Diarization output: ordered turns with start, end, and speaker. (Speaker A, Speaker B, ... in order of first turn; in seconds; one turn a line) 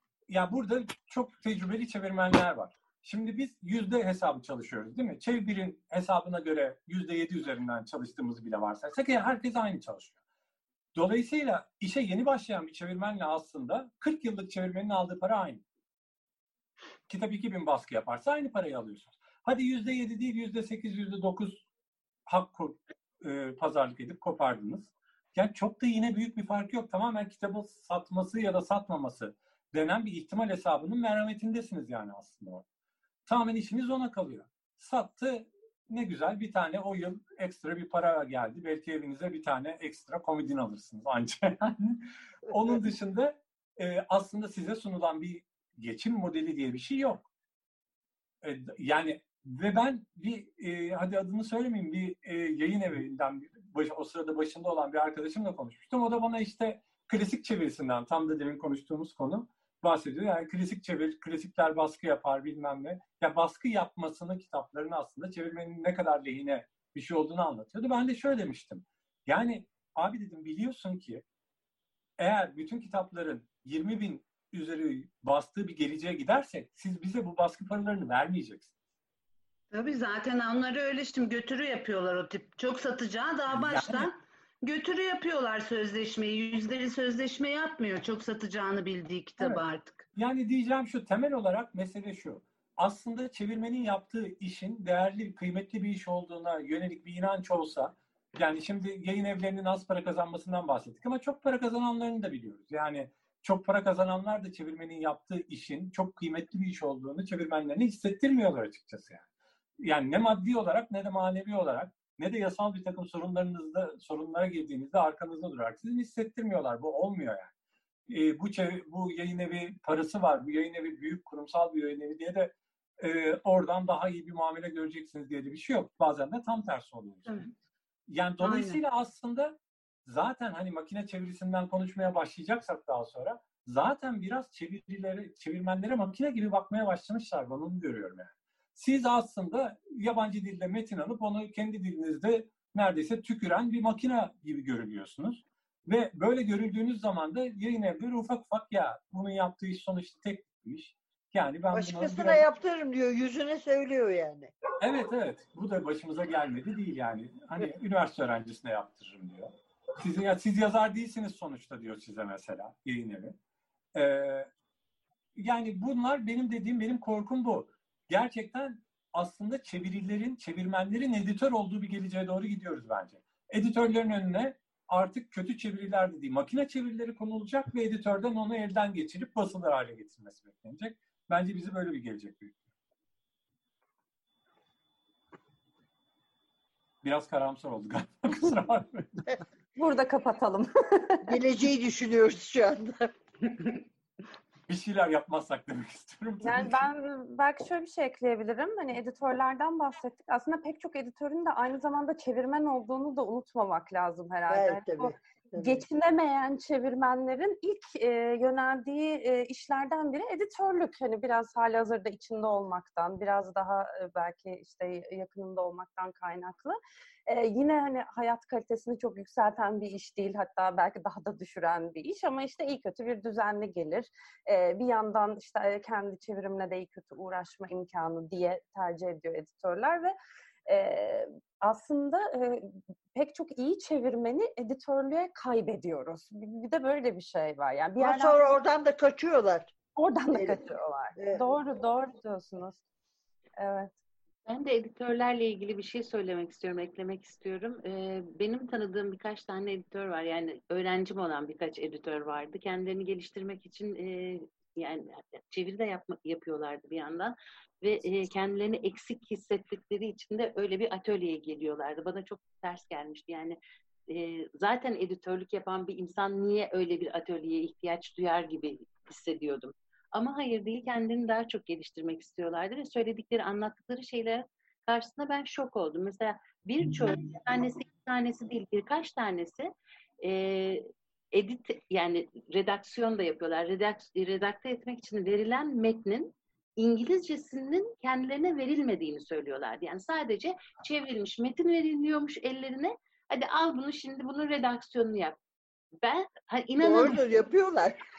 Speaker A: 0.3-10.1
Speaker A: 10.9-15.6
Speaker A: 17.1-21.6
Speaker A: 22.3-32.6
Speaker A: 33.3-47.3
Speaker A: 48.4-71.2
Speaker A: 72.2-78.7
Speaker B: 79.7-90.0
Speaker A: 83.5-84.1
Speaker A: 90.2-109.2
Speaker A: 109.8-117.5
Speaker A: 118.1-127.4
Speaker B: 127.2-127.5
Speaker A: 128.1-152.4
Speaker B: 128.4-128.8
Speaker C: 151.7-154.5
Speaker A: 154.8-163.3
Speaker A: 163.9-164.5
Speaker A: 165.3-182.6
Speaker A: 187.0-189.3
Speaker D: 189.8-191.2
Speaker C: 191.2-193.1
Speaker A: 194.7-196.9
Speaker D: 196.4-230.1
Speaker C: 204.5-205.8
Speaker D: 230.7-238.6
Speaker C: 238.0-239.7
Speaker D: 239.9-242.8
Speaker C: 240.3-240.6
Speaker C: 241.2-241.4
Speaker D: 243.6-243.9
Speaker E: 244.5-263.6
Speaker E: 264.1-279.7
Speaker E: 280.2-295.4
Speaker E: 296.0-297.3
Speaker C: 296.8-298.0